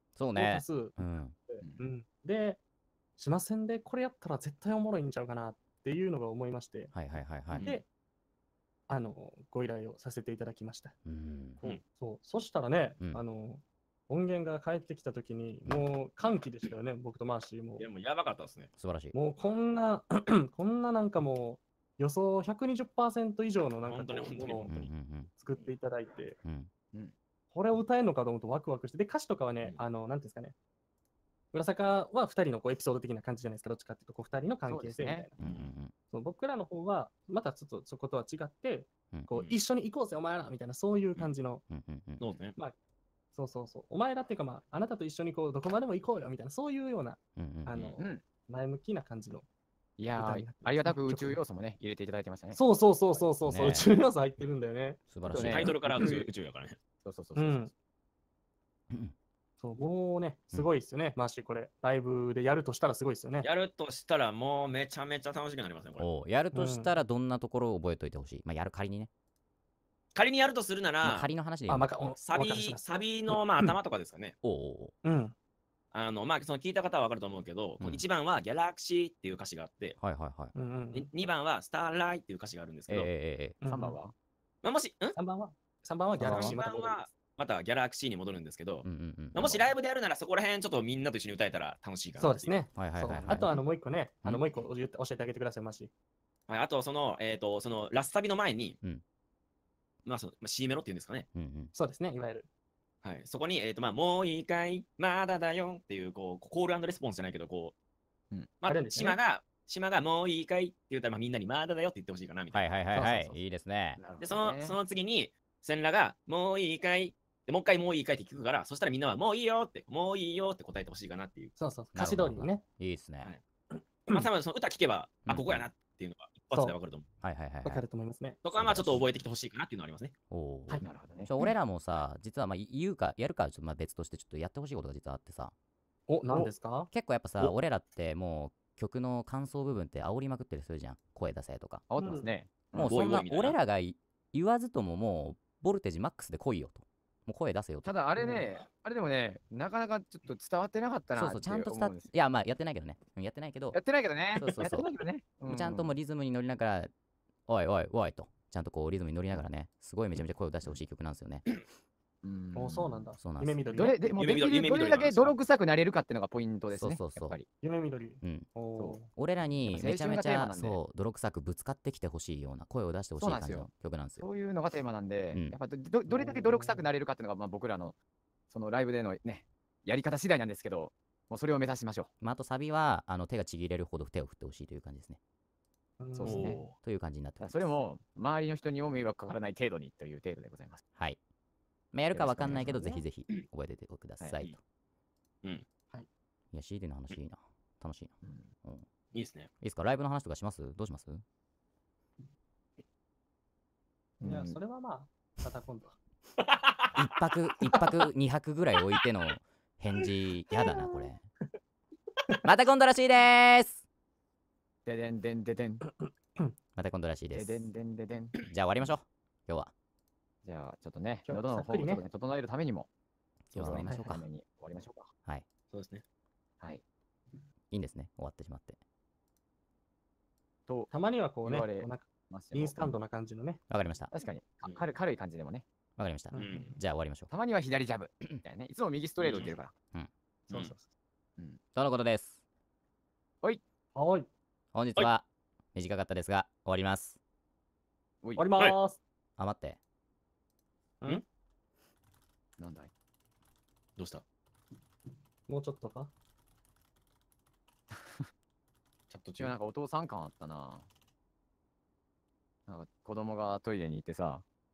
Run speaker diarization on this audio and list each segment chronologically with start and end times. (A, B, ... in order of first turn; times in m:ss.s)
0:00.1-0:01.4 A
0:00.3-0:02.6 B
0:03.2-0:06.9 B
0:06.9-0:07.7 A
0:07.5-0:07.8 C
0:07.6-0:07.9 B
0:08.9-0:10.9 B
0:11.0-0:11.6 A
0:11.6-0:17.8 B
0:17.8-0:18.7 C
0:18.8-0:19.1 A
0:19.1-0:24.7 B
0:23.8-0:24.9 C
0:24.6-0:25.3 A
0:25.4-0:26.4 B
0:26.4-0:26.7 A
0:27.5-0:30.5 B
0:31.5-0:35.4 B
0:34.6-0:35.3 D
0:35.4-0:35.7 C
0:35.4-0:35.9 A
0:36.1-0:41.6 B
0:41.7-0:42.3 A
0:42.2-0:42.6 C
0:43.3-0:49.4 B
0:47.4-0:47.9 A
0:48.0-0:48.2 D
0:50.0-0:52.6 D
0:50.2-0:51.4 B
0:52.5-0:56.2 B
0:53.1-0:53.8 D
0:53.4-0:53.9 A
0:55.1-0:56.0 A
0:55.2-0:56.2 D
0:55.5-0:56.8 C
0:57.0-0:57.7 D
0:57.4-0:57.7 B
0:59.6-1:03.5 B
1:03.4-1:06.1 C
1:06.0-1:09.1 A
1:06.5-1:06.9 B
1:10.1-1:11.3 C
1:11.0-1:12.0 A
1:11.7-1:12.8 B
1:12.2-1:14.3 C
1:14.4-1:14.9 A
1:15.0-1:15.3 B
1:15.9-1:20.0 C
1:20.0-1:20.5 A
1:20.5-1:21.1 B
1:20.9-1:23.1 C
1:22.9-1:23.6 A
1:23.6-1:24.0 B
1:23.7-1:24.1 D
1:24.6-1:25.2 C
1:25.2-1:27.0 B
1:26.2-1:26.6 A
1:26.2-1:32.5 C
1:28.8-1:29.7 A
1:32.2-1:35.9 B
1:32.7-1:33.6 A
1:36.5-1:38.8 C
1:40.0-1:41.3 C
1:41.3-1:41.7 A
1:41.7-1:42.5 B
1:43.0-1:47.7 C
1:48.6-1:52.7 C
1:48.6-1:49.2 B
1:52.5-1:54.0 A
1:52.9-1:53.4 D
1:54.0-1:54.8 D
1:54.2-2:01.5 C
2:01.6-2:02.6 B
2:01.9-2:03.3 A
2:03.7-2:04.3 B
2:04.1-2:07.0 C
2:05.2-2:05.6 A
2:07.2-2:07.8 A
2:07.6-2:08.4 B
2:08.4-2:10.1 C
2:08.5-2:09.0 A
2:10.3-2:15.5 A
2:10.8-2:11.3 D
2:16.1-2:17.5 B
2:16.9-2:21.8 A
2:21.9-2:23.1 D
2:22.0-2:22.3 B
2:22.7-2:27.9 A
2:22.9-2:23.6 C
2:27.8-2:32.1 D
2:28.2-2:28.5 B
2:31.1-2:33.8 A
2:33.7-2:35.9 D
2:34.4-2:34.9 A
2:35.5-2:36.9 A
2:37.5-2:41.5 A
2:42.2-2:43.0 D
2:42.5-2:44.1 B
2:43.2-2:43.6 A
2:43.7-2:47.5 D
2:44.2-2:45.3 C
2:46.7-2:47.4 A
2:47.6-2:49.1 B
2:48.2-2:48.5 A
2:49.1-2:54.2 A
2:49.7-2:50.8 D
2:53.2-2:57.9 D
2:56.1-2:56.9 B
2:58.5-3:02.1 D
3:02.2-3:05.2 A
3:06.0-3:06.5 B
3:06.1-3:06.6 D
3:06.2-3:06.7 C
3:06.7-3:07.7 A
3:07.4-3:10.8 D
3:11.9-3:14.6 A
3:12.1-3:13.0 D
3:12.7-3:12.9 B
3:16.5-3:18.8 A
3:19.1-3:19.5 C
3:19.6-3:21.2 A
3:24.2-3:24.6 D
3:24.2-3:26.0 B
3:26.4-3:26.8 C
3:27.0-3:31.3 A
3:32.4-3:33.8 A
3:34.8-3:35.8 D
3:36.0-3:36.5 B
3:36.8-3:37.7 A
3:37.3-3:38.4 D
3:38.5-3:39.7 A
3:40.4-3:42.9 D
3:41.2-3:42.0 B
3:43.5-3:44.2 A
3:43.5-3:45.1 D
3:45.7-3:46.0 C
3:47.7-3:48.8 A
3:50.9-3:53.6 B
3:51.4-3:52.9 D
3:53.7-3:54.1 A
3:54.1-3:55.6 D
3:56.0-3:57.3 A
3:56.3-3:56.7 B
3:56.3-3:56.8 C
3:57.3-3:59.7 D
3:59.2-3:59.5 C
4:00.5-4:00.8 B
4:01.7-4:02.4 A
4:03.9-4:04.3 B
4:04.7-4:07.2 A
4:08.2-4:08.5 D
4:08.4-4:09.0 B
4:09.4-4:09.8 A
4:12.6-4:12.9 D
4:14.0-4:14.2 C
4:15.5-4:16.1 B
4:17.9-4:18.3 D
4:19.1-4:19.5 C
4:19.4-4:20.9 D
4:22.7-4:24.4 D